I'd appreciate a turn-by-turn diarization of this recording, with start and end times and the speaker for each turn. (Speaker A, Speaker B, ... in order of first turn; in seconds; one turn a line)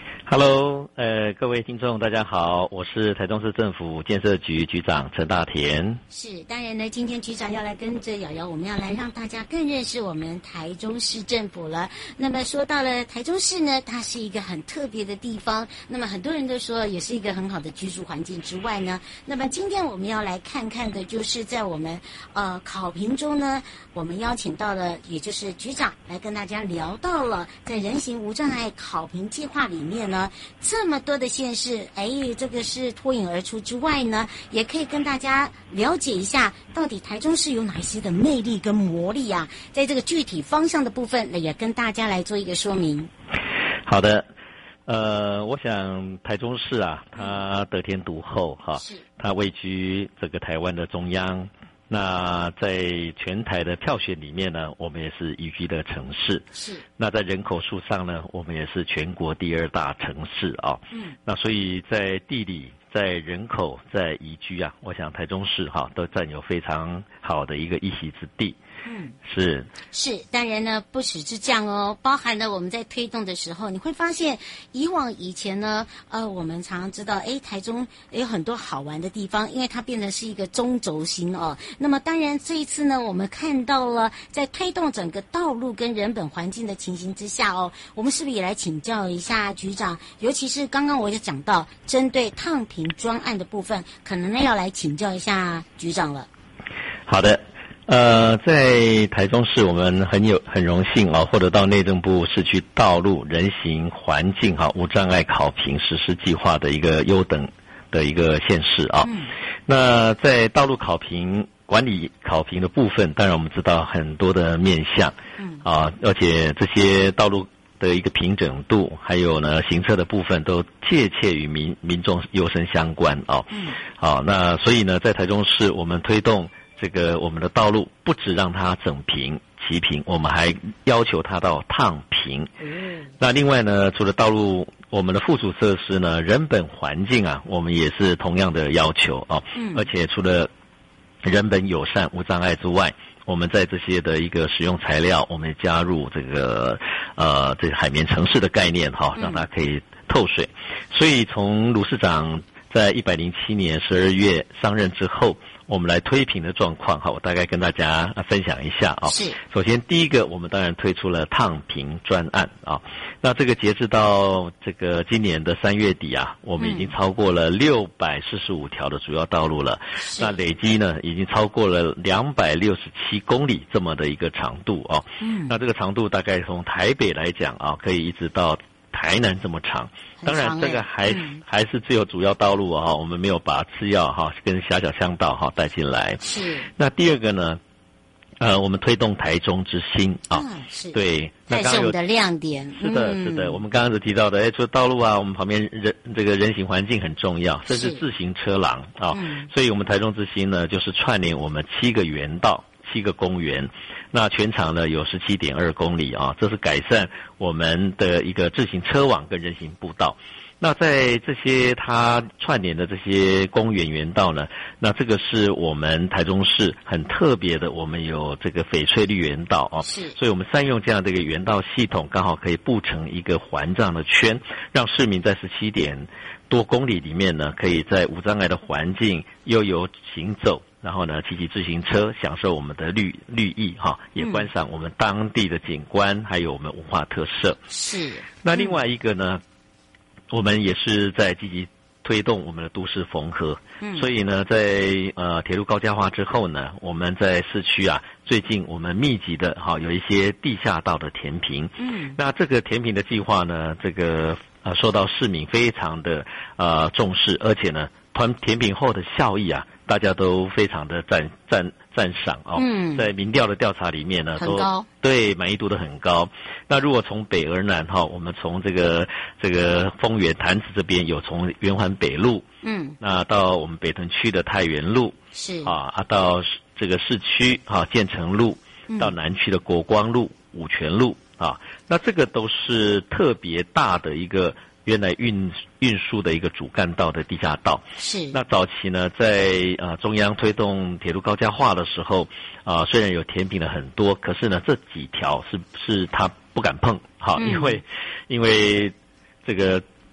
Speaker A: 0.3-6.0
Speaker B: 6.1-43.1
Speaker A: 43.9-44.3
Speaker A: 44.9-56.5
Speaker B: 48.8-49.0
Speaker B: 56.5-56.8
Speaker A: 57.0-68.6
Speaker B: 68.8-69.2
Speaker A: 69.2-69.7
Speaker B: 69.9-96.3
Speaker A: 97.1-109.1
Speaker B: 109.0-109.3
Speaker A: 109.7-132.5
Speaker B: 115.4-115.6
Speaker B: 123.5-123.8
Speaker B: 132.8-133.1
Speaker A: 133.2-140.5
Speaker B: 139.6-139.9
Speaker A: 141.2-186.2
Speaker B: 149.2-149.4
Speaker B: 159.1-159.4
Speaker B: 166.6-166.9
Speaker B: 170.1-170.3
Speaker B: 175.2-175.6
Speaker B: 180.2-181.4
Speaker B: 186.2-186.7
Speaker A: 186.8-187.6
Speaker A: 188.4-192.0
Speaker B: 190.3-191.0
Speaker B: 191.5-193.6
Speaker A: 192.8-237.6
Speaker B: 197.7-198.0
Speaker B: 199.1-199.5
Speaker B: 219.8-220.2
Speaker B: 234.2-234.5
Speaker B: 237.7-238.7
Speaker A: 238.4-239.4
Speaker A: 240.3-272.5
Speaker B: 243.8-244.1
Speaker B: 251.8-252.2
Speaker B: 262.6-263.1
Speaker B: 264.4-264.9
Speaker B: 272.6-273.0
Speaker A: 273.0-299.9
Speaker B: 275.3-275.8
Speaker B: 278.9-279.1
Speaker B: 288.0-288.4
Speaker B: 297.4-297.8